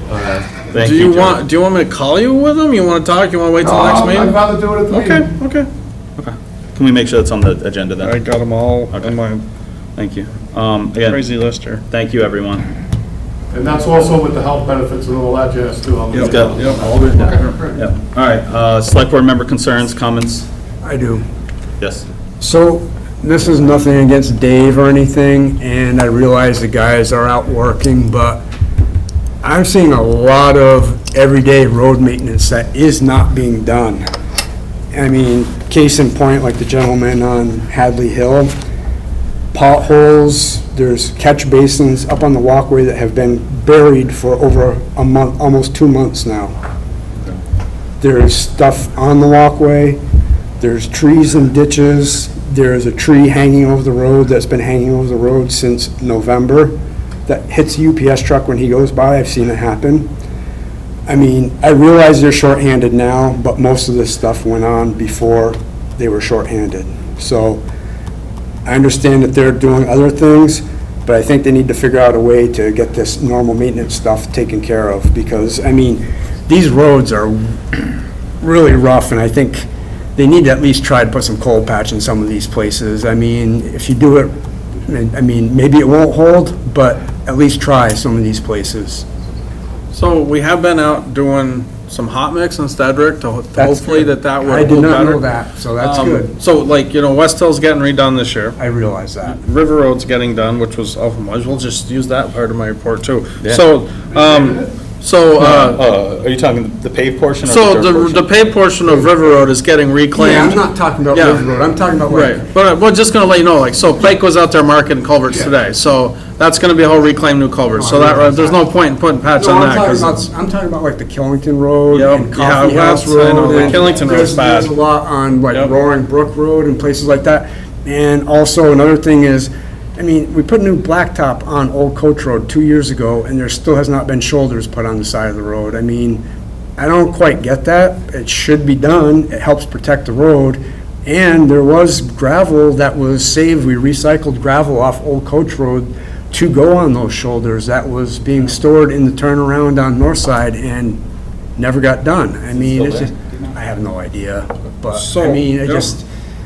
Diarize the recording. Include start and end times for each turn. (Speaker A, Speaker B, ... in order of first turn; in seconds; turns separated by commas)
Speaker A: 0.1-1.4, Speaker B: 0.8-4.4, Speaker C: 3.6-5.3, Speaker B: 4.9-5.7, Speaker A: 6.2-8.2, Speaker B: 8.0-9.4, Speaker A: 8.9-9.2, Speaker A: 10.0-11.3, Speaker B: 11.0-11.8, Speaker A: 11.9-12.7, Speaker C: 13.5-17.5, Speaker B: 16.1-17.6, Speaker A: 16.1-20.5, Speaker D: 20.8-21.3, Speaker A: 21.8-22.1, Speaker D: 22.4-28.4, Speaker D: 29.4-34.1, Speaker D: 34.9-38.6, Speaker D: 39.5-46.6, Speaker D: 48.0-50.0, Speaker D: 50.6-60.1, Speaker D: 61.1-67.6, Speaker D: 68.7-84.3, Speaker D: 84.8-89.1, Speaker B: 89.9-95.2, Speaker D: 93.6-96.3, Speaker B: 95.8-98.6, Speaker D: 98.6-99.4, Speaker B: 99.2-105.8, Speaker C: 104.1-104.7, Speaker A: 105.4-108.3, Speaker B: 107.5-111.5, Speaker D: 108.8-109.2, Speaker D: 110.1-112.5, Speaker B: 112.1-120.2, Speaker D: 117.7-118.6, Speaker D: 119.4-136.2, Speaker B: 121.9-124.7, Speaker D: 136.8-151.0, Speaker D: 151.6-156.1, Speaker A: 152.6-153.1, Speaker B: 154.9-155.9